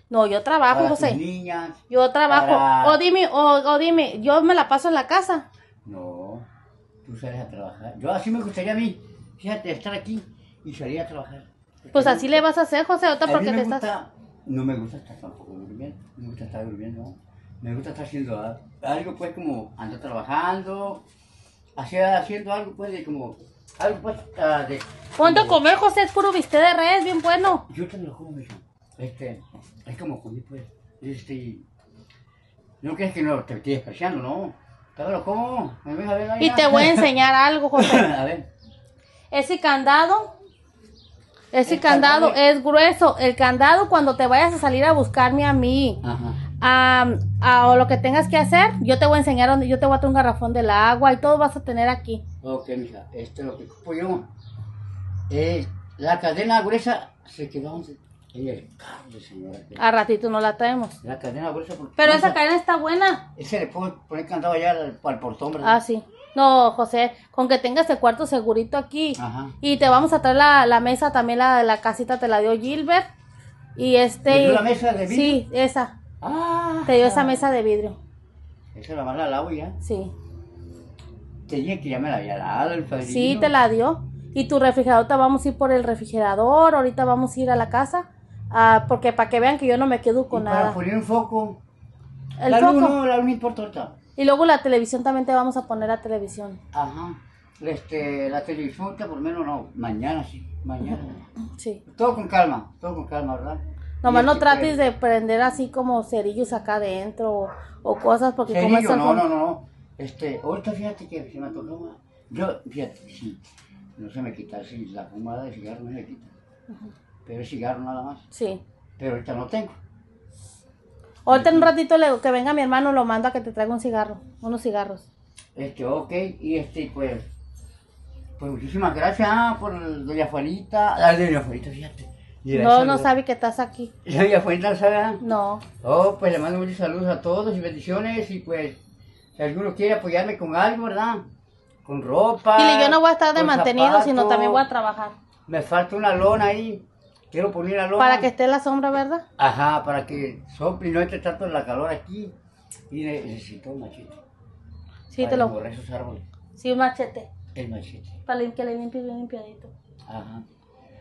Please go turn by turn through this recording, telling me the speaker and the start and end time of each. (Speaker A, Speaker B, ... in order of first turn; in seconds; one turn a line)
Speaker A: 0.1-1.2
Speaker B: 0.7-3.0
Speaker A: 1.9-5.4
Speaker B: 5.8-6.5
Speaker B: 7.0-12.4
Speaker A: 11.9-13.8
Speaker B: 13.2-21.0
Speaker B: 21.8-25.6
Speaker A: 25.2-27.6
Speaker B: 27.7-31.6
Speaker B: 32.8-37.1
Speaker A: 36.4-38.1
Speaker B: 37.7-38.5
Speaker A: 39.3-40.3
Speaker A: 41.5-46.0
Speaker B: 41.6-42.4
Speaker B: 46.0-46.4
Speaker A: 46.6-52.2
Speaker B: 52.4-54.3
Speaker B: 55.3-59.8
Speaker A: 59.8-61.0
Speaker B: 61.0-62.4
Speaker A: 62.0-63.2
Speaker B: 63.4-65.8
Speaker A: 65.6-73.1
Speaker B: 69.2-69.6
Speaker A: 73.8-75.9
Speaker B: 74.3-75.4
Speaker B: 76.2-77.4
Speaker A: 76.8-78.0
Speaker B: 78.7-79.8
Speaker A: 79.8-80.1
Speaker B: 81.5-83.5
Speaker A: 83.0-90.8
Speaker B: 90.3-91.6
Speaker A: 92.4-93.0
Speaker B: 92.5-93.9
Speaker A: 94.2-96.6
Speaker B: 96.7-101.2
Speaker A: 101.6-101.8
Speaker B: 101.9-104.8
Speaker A: 104.0-109.3
Speaker B: 108.5-113.4
Speaker B: 114.0-116.3
Speaker B: 117.2-118.2
Speaker A: 118.3-118.6
Speaker B: 119.0-119.7
Speaker A: 121.2-125.0
Speaker B: 121.3-121.7
Speaker B: 125.5-127.3
Speaker B: 128.4-133.1
Speaker A: 132.5-133.9
Speaker B: 134.0-135.2
Speaker A: 135.2-135.6
Speaker B: 135.8-138.8
Speaker B: 139.4-141.2
Speaker B: 141.8-144.6
Speaker A: 142.6-145.1
Speaker B: 145.5-148.3
Speaker A: 148.0-149.2
Speaker B: 149.4-152.3
Speaker B: 152.9-154.2
Speaker A: 155.1-155.5
Speaker B: 155.2-156.2
Speaker A: 156.6-157.3
Speaker B: 157.5-158.2
Speaker A: 158.2-159.7
Speaker B: 160.1-160.4